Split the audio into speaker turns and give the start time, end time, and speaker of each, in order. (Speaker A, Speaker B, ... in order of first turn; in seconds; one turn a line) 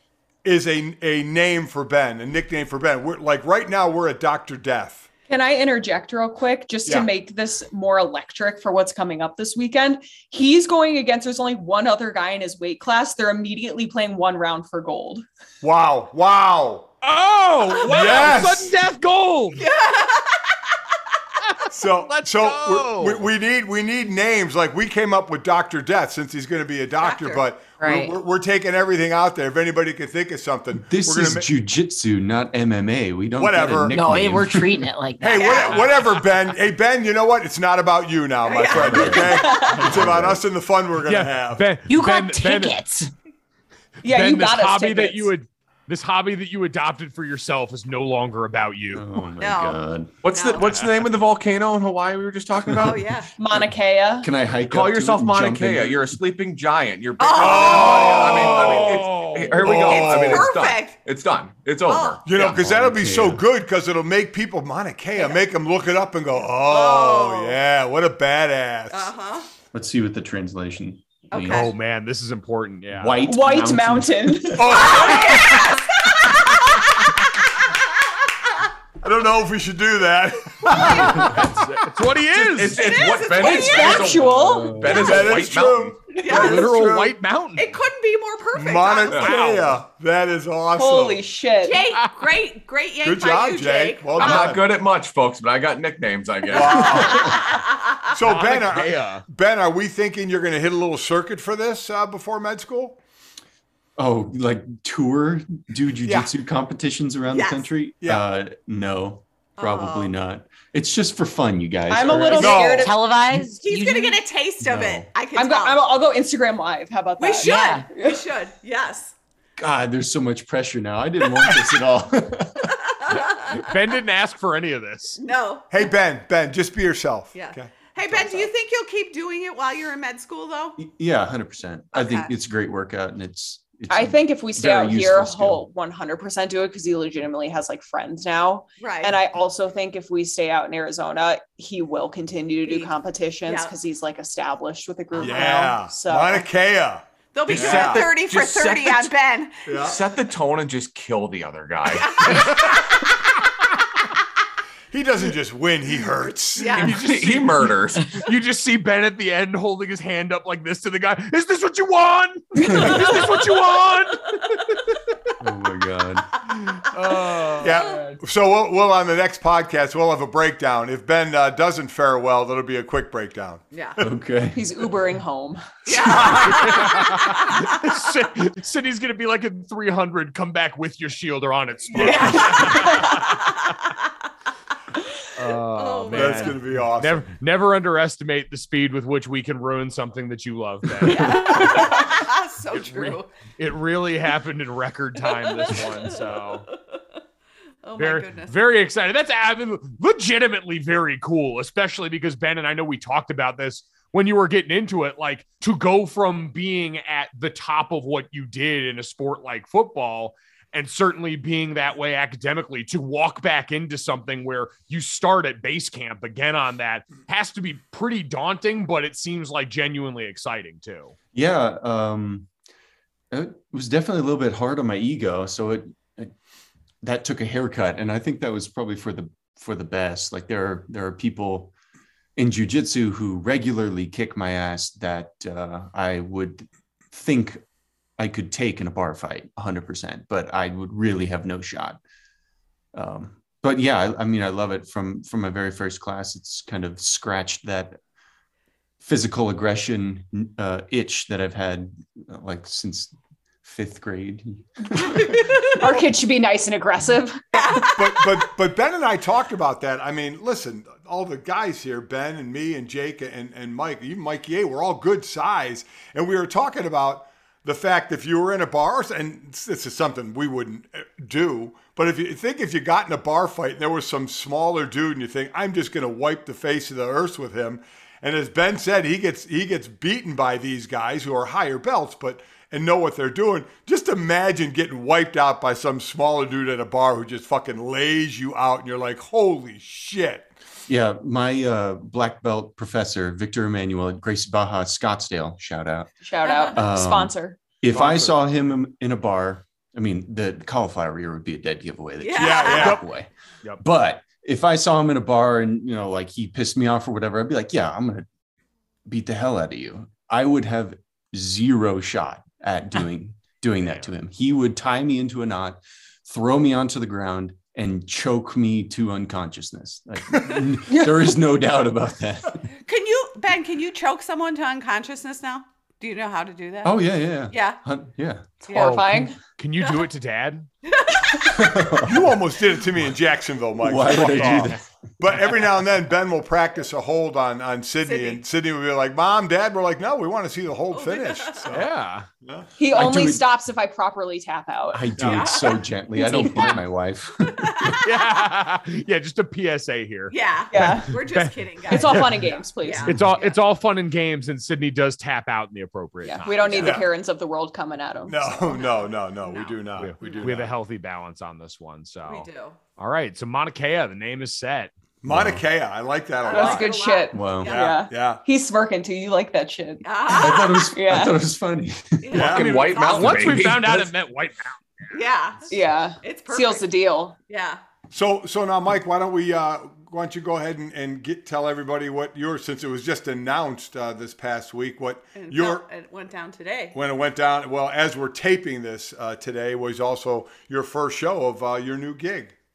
Speaker A: 0.4-5.1
Speaker B: 5.3-15.2
Speaker A: 15.6-16.9
Speaker C: 17.0-19.7
Speaker A: 17.8-18.7
Speaker D: 19.6-20.6
Speaker C: 21.4-23.3
Speaker A: 21.7-31.5
Speaker D: 27.0-27.4
Speaker E: 27.8-28.2
Speaker F: 30.8-34.9
Speaker A: 33.4-34.0
Speaker E: 33.9-35.7
Speaker A: 35.2-41.7
Speaker D: 35.3-36.1
Speaker D: 38.4-39.7
Speaker F: 38.7-40.5
Speaker B: 39.3-39.8
Speaker C: 41.1-42.8
Speaker E: 41.9-43.1
Speaker B: 44.0-45.3
Speaker C: 44.0-49.0
Speaker F: 48.9-50.1
Speaker D: 49.4-49.8
Speaker G: 50.2-53.1
Speaker D: 50.3-50.8
Speaker D: 52.8-53.3
Speaker B: 53.4-54.3
Speaker F: 54.2-56.2
Speaker G: 54.7-62.5
Speaker D: 57.2-58.9
Speaker A: 57.4-59.0
Speaker C: 57.4-59.7
Speaker A: 59.5-60.5
Speaker D: 59.7-61.0
Speaker D: 61.9-62.2
Speaker A: 62.2-69.1
Speaker F: 62.4-63.4
Speaker D: 65.2-65.4
Speaker D: 66.6-67.6
Speaker D: 68.9-69.5
Speaker F: 69.7-71.7
Speaker D: 71.3-71.7
Speaker C: 71.5-73.2
Speaker F: 72.9-74.7
Speaker B: 73.2-75.0
Speaker A: 74.6-75.8
Speaker D: 74.7-76.8
Speaker A: 79.0-81.5
Speaker C: 80.8-82.9
Speaker G: 82.4-86.0
Speaker D: 82.7-84.2
Speaker B: 83.3-85.0
Speaker F: 84.3-85.1
Speaker A: 84.9-87.2
Speaker D: 84.9-85.3
Speaker D: 86.1-86.7
Speaker C: 86.3-87.7
Speaker D: 87.6-89.4
Speaker A: 88.5-91.3
Speaker C: 89.1-89.8
Speaker B: 90.8-91.8
Speaker D: 91.6-94.5
Speaker A: 93.0-94.7
Speaker G: 94.2-97.3
Speaker A: 96.5-97.6
Speaker D: 97.1-97.6
Speaker A: 98.1-103.0
Speaker C: 98.2-99.2
Speaker F: 104.0-112.6
Speaker D: 107.3-107.7
Speaker D: 109.6-110.2
Speaker B: 111.9-113.0
Speaker A: 112.3-112.9
Speaker E: 112.5-114.2
Speaker D: 113.6-115.9
Speaker F: 114.6-115.1
Speaker B: 115.3-118.2
Speaker D: 117.2-119.2
Speaker E: 117.4-117.9
Speaker F: 119.6-122.8
Speaker D: 122.9-123.7
Speaker C: 123.1-125.2
Speaker D: 125.2-125.8
Speaker A: 125.7-128.5
Speaker D: 127.3-130.8
Speaker F: 130.8-135.6
Speaker D: 131.9-132.3
Speaker B: 133.9-146.5
Speaker D: 138.8-139.2
Speaker D: 142.6-142.9
Speaker D: 143.4-143.8
Speaker A: 145.2-148.1
Speaker D: 147.3-149.7
Speaker G: 147.5-149.1
Speaker A: 149.7-150.0
Speaker G: 149.8-152.6
Speaker D: 151.9-152.8
Speaker A: 154.9-156.9
Speaker D: 156.6-157.0
Speaker G: 156.8-158.1
Speaker C: 156.8-164.3
Speaker F: 162.6-163.2
Speaker F: 165.4-166.3
Speaker C: 166.9-168.2
Speaker A: 167.6-174.1
Speaker D: 173.7-174.0
Speaker F: 174.0-174.6
Speaker B: 174.5-176.3
Speaker D: 175.9-177.6
Speaker C: 176.5-183.3
Speaker D: 181.9-183.3
Speaker C: 185.3-192.1
Speaker D: 185.8-186.6
Speaker A: 186.1-187.3
Speaker D: 191.1-193.3
Speaker C: 192.7-196.7
Speaker D: 195.2-196.2
Speaker D: 197.8-198.6
Speaker C: 198.0-221.2
Speaker F: 221.3-222.5
Speaker F: 223.3-226.3
Speaker F: 227.0-231.7
Speaker F: 232.4-237.6
Speaker F: 238.2-242.0
Speaker F: 242.9-248.0
Speaker F: 249.0-255.4
Speaker B: 255.6-257.9
Speaker D: 257.5-258.4
Speaker A: 257.9-290.5
Speaker F: 290.9-296.1
Speaker B: 296.2-297.6
Speaker D: 296.4-296.8
Speaker F: 296.7-303.3
Speaker A: 297.9-298.3
Speaker D: 302.2-303.0
Speaker A: 302.4-303.0
Speaker C: 302.8-303.0
Speaker F: 303.8-308.3
Speaker F: 309.1-322.6
Speaker B: 320.9-321.3
Speaker D: 322.9-327.8
Speaker F: 326.8-328.6
Speaker D: 328.7-329.0
Speaker B: 328.7-329.4
Speaker C: 328.7-330.7
Speaker D: 330.9-331.6
Speaker F: 331.4-332.4
Speaker A: 332.0-341.9
Speaker F: 333.8-334.9
Speaker C: 334.1-334.8
Speaker D: 338.0-338.4
Speaker D: 340.9-341.7
Speaker C: 341.7-342.3
Speaker A: 342.4-342.7
Speaker B: 342.8-345.2
Speaker F: 342.9-343.4
Speaker F: 344.9-347.9
Speaker D: 345.2-345.8
Speaker B: 346.1-346.8
Speaker D: 347.5-348.4
Speaker C: 348.0-352.3
Speaker D: 350.3-353.6
Speaker B: 350.7-351.1
Speaker B: 351.9-353.2
Speaker C: 353.1-356.9
Speaker B: 356.2-358.5
Speaker D: 356.4-357.0
Speaker A: 356.8-357.1
Speaker A: 358.3-360.7
Speaker D: 358.6-360.4
Speaker C: 360.0-364.9
Speaker D: 362.3-362.8
Speaker A: 365.2-366.9
Speaker F: 365.3-365.6
Speaker D: 366.4-368.0
Speaker B: 366.5-370.1
Speaker F: 367.3-367.8
Speaker A: 367.7-368.4
Speaker D: 370.0-370.9
Speaker F: 370.3-372.4
Speaker B: 370.9-371.4
Speaker D: 372.2-373.7
Speaker A: 372.3-372.9
Speaker G: 372.4-374.1
Speaker C: 372.9-375.1
Speaker D: 375.1-376.9
Speaker B: 375.7-377.4
Speaker D: 377.5-377.8
Speaker A: 378.1-385.8
Speaker D: 385.4-387.0
Speaker A: 386.9-392.5